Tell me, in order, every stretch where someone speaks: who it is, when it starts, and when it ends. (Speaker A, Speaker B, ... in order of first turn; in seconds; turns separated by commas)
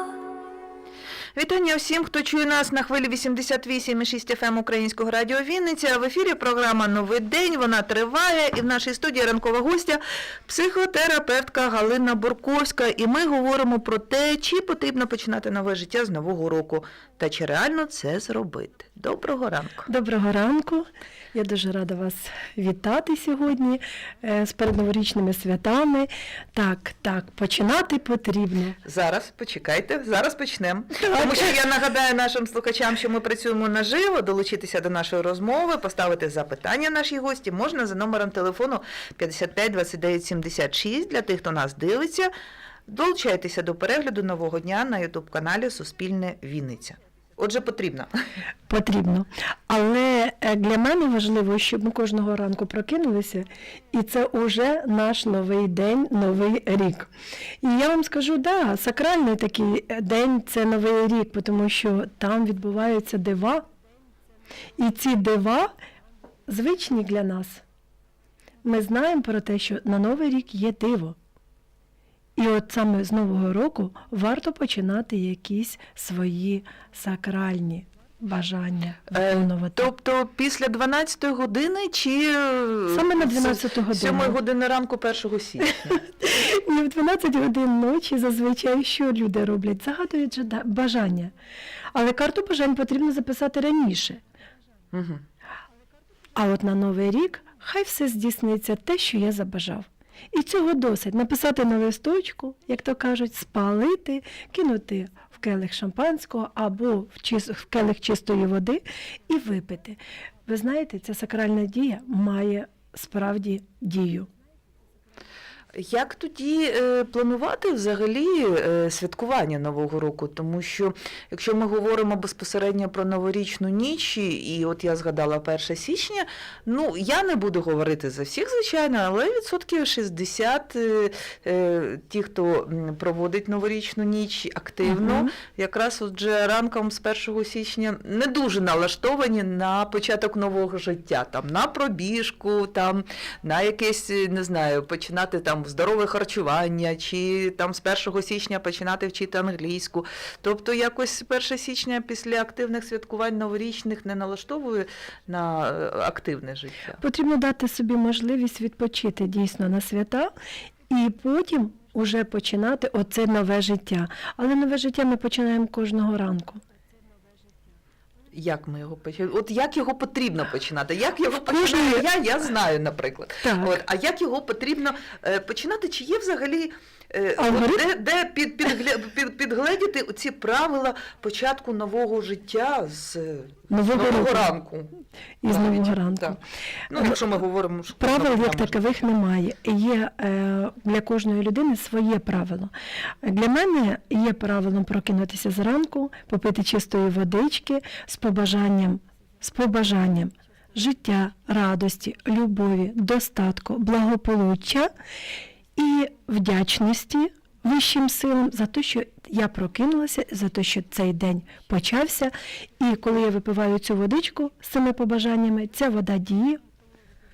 Speaker A: 1.4-19.9, Speaker B: 19.9-28.8, Speaker A: 28.8-42.3, Speaker B: 31.0-31.5, Speaker A: 42.9-48.1, Speaker B: 48.7-57.1, Speaker B: 57.6-63.6, Speaker B: 64.8-65.7, Speaker B: 66.5-67.6, Speaker B: 68.6-71.2, Speaker B: 72.4-79.9, Speaker A: 79.1-86.0, Speaker B: 82.9-84.4, Speaker B: 85.9-91.3, Speaker B: 91.9-94.2, Speaker A: 94.9-95.2, Speaker B: 96.3-114.3, Speaker A: 115.7-157.0, Speaker B: 134.9-135.3, Speaker B: 157.0-160.3, Speaker B: 160.9-166.6, Speaker A: 168.3-184.9, Speaker B: 171.3-172.1, Speaker B: 173.4-173.8, Speaker B: 177.4-177.8, Speaker B: 183.7-184.5, Speaker B: 185.4-186.4, Speaker A: 185.5-186.4, Speaker A: 186.9-188.9, Speaker B: 188.0-204.9, Speaker B: 205.8-216.6